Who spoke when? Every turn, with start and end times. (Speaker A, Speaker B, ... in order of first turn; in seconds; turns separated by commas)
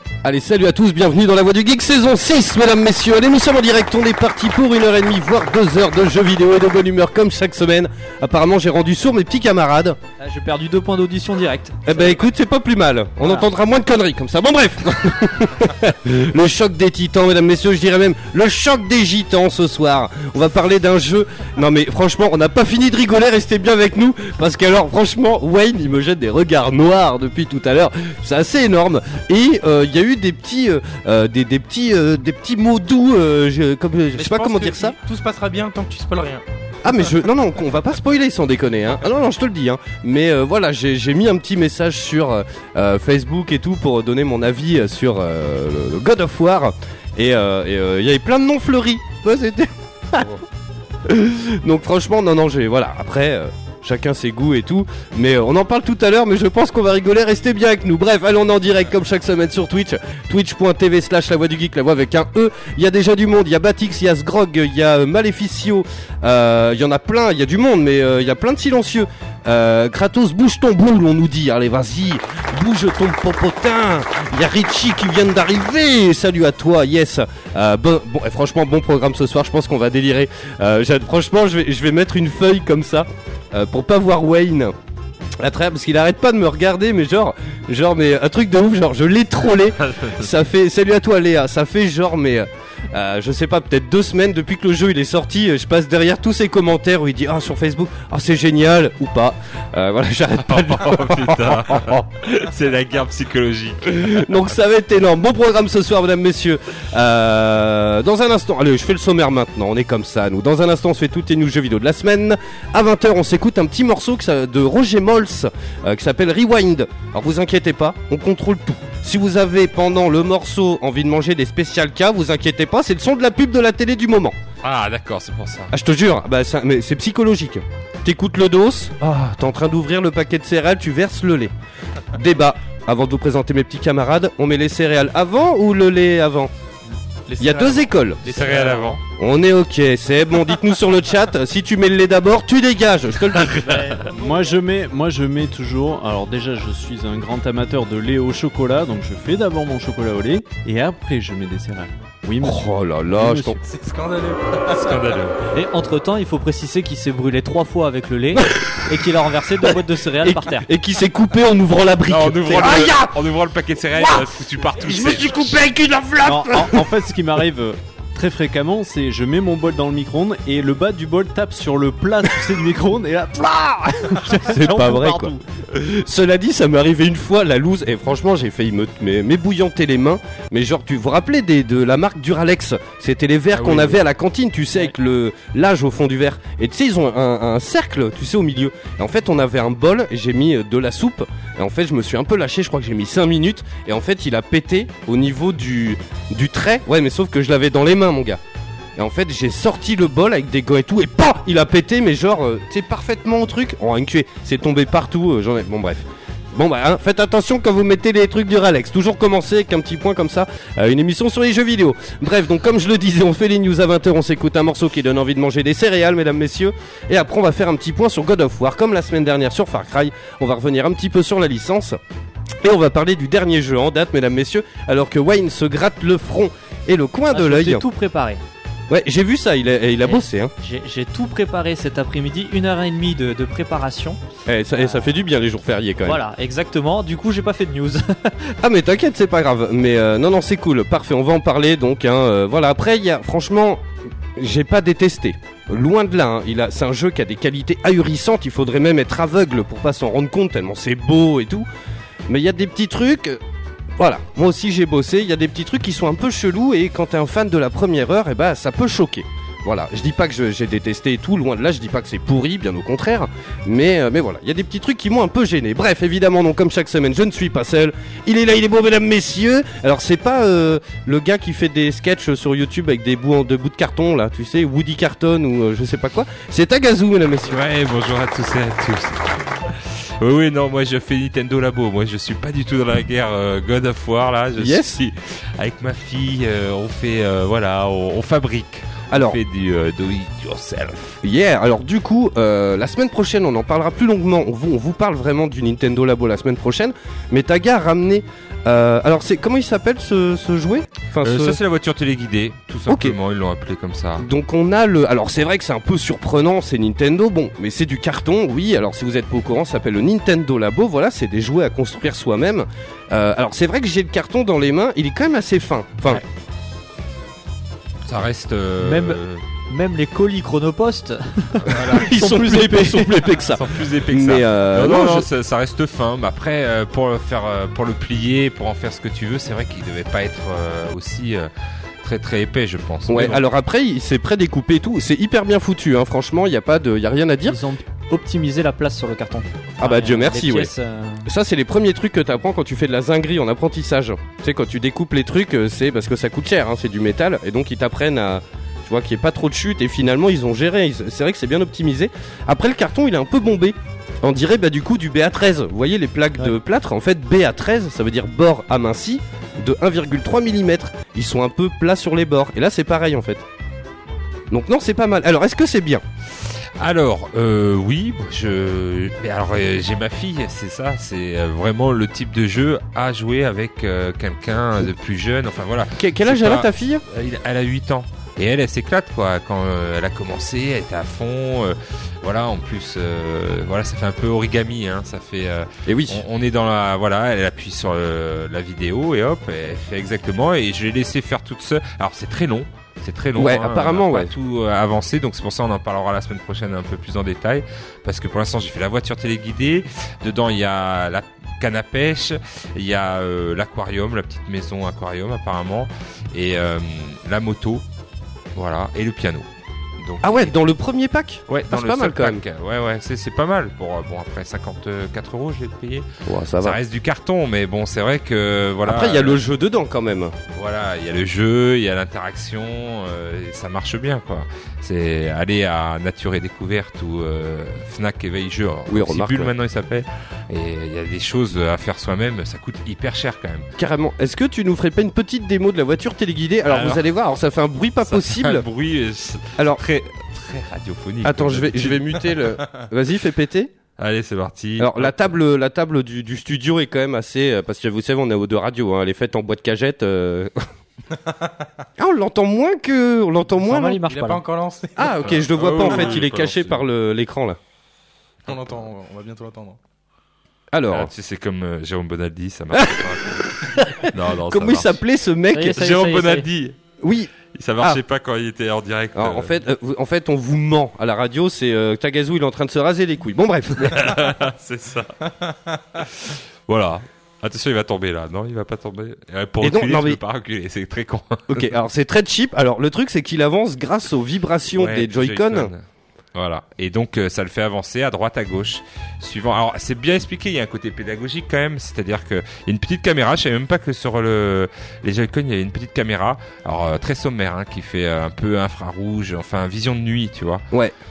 Speaker A: 0.2-10.0, Speaker B: 10.2-12.2, Speaker A: 11.8-34.9, Speaker C: 34.1-36.4, Speaker A: 36.8-50.4, Speaker A: 51.0-84.7, Speaker A: 85.4-102.0, Speaker D: 89.8-90.2, Speaker D: 100.5-104.3, Speaker A: 103.9-124.3, Speaker D: 124.6-125.7, Speaker A: 125.7-131.5, Speaker A: 132.1-136.5, Speaker C: 137.2-139.0, Speaker A: 137.4-138.5, Speaker D: 138.3-139.0, Speaker A: 139.2-143.9, Speaker D: 143.4-144.0, Speaker C: 143.9-144.3, Speaker E: 144.1-153.6, Speaker A: 152.4-153.6, Speaker C: 153.7-155.2, Speaker D: 154.7-155.4, Speaker B: 155.5-160.7, Speaker A: 158.3-158.9, Speaker A: 160.2-163.2, Speaker D: 162.1-165.6, Speaker A: 163.9-166.8, Speaker E: 166.2-175.4, Speaker A: 174.3-198.4, Speaker D: 183.5-184.0, Speaker A: 199.0-222.0, Speaker A: 222.6-227.8, Speaker B: 227.3-228.4, Speaker A: 228.9-230.5, Speaker B: 230.0-234.2, Speaker A: 234.5-236.2, Speaker B: 236.0-238.5, Speaker A: 238.6-243.8, Speaker A: 244.3-251.7, Speaker A: 252.3-253.4, Speaker A: 254.0-277.6, Speaker D: 277.5-291.2, Speaker A: 284.6-285.0, Speaker A: 289.1-289.4, Speaker A: 291.2-301.6, Speaker D: 301.2-304.3, Speaker A: 302.9-303.1, Speaker A: 304.2-316.2, Speaker D: 318.0-319.4, Speaker B: 318.8-323.2, Speaker D: 321.6-322.4, Speaker A: 321.8-325.2, Speaker D: 323.5-331.5, Speaker D: 332.0-333.4, Speaker A: 333.1-337.6, Speaker B: 337.4-341.3, Speaker A: 339.8-340.7, Speaker A: 341.2-363.4, Speaker A: 364.5-366.0, Speaker D: 366.4-407.8, Speaker A: 375.9-377.0, Speaker A: 385.9-386.2, Speaker A: 393.4-394.3, Speaker D: 408.5-409.5, Speaker D: 410.0-410.5, Speaker A: 410.2-412.4, Speaker D: 411.5-416.1, Speaker A: 416.2-416.8, Speaker D: 416.6-419.4, Speaker A: 418.8-420.4, Speaker D: 420.5-433.7, Speaker A: 428.9-429.5, Speaker A: 433.8-438.6, Speaker D: 436.7-437.0, Speaker D: 438.1-442.2, Speaker A: 439.6-439.8, Speaker A: 441.2-443.7, Speaker D: 444.0-445.3, Speaker A: 444.8-450.6, Speaker C: 451.2-451.5, Speaker A: 452.0-454.0, Speaker B: 453.6-454.4, Speaker C: 454.1-455.1, Speaker A: 455.0-457.6, Speaker D: 455.2-456.8, Speaker C: 455.8-456.1, Speaker C: 458.5-459.8, Speaker A: 460.7-461.1, Speaker D: 460.9-465.0, Speaker A: 462.7-465.9, Speaker B: 465.5-466.4, Speaker D: 465.7-466.8, Speaker A: 467.0-468.0, Speaker D: 467.5-469.6, Speaker A: 469.1-474.3, Speaker D: 473.8-481.7, Speaker A: 479.6-480.2, Speaker A: 481.5-485.7, Speaker D: 484.8-485.8, Speaker D: 486.3-500.6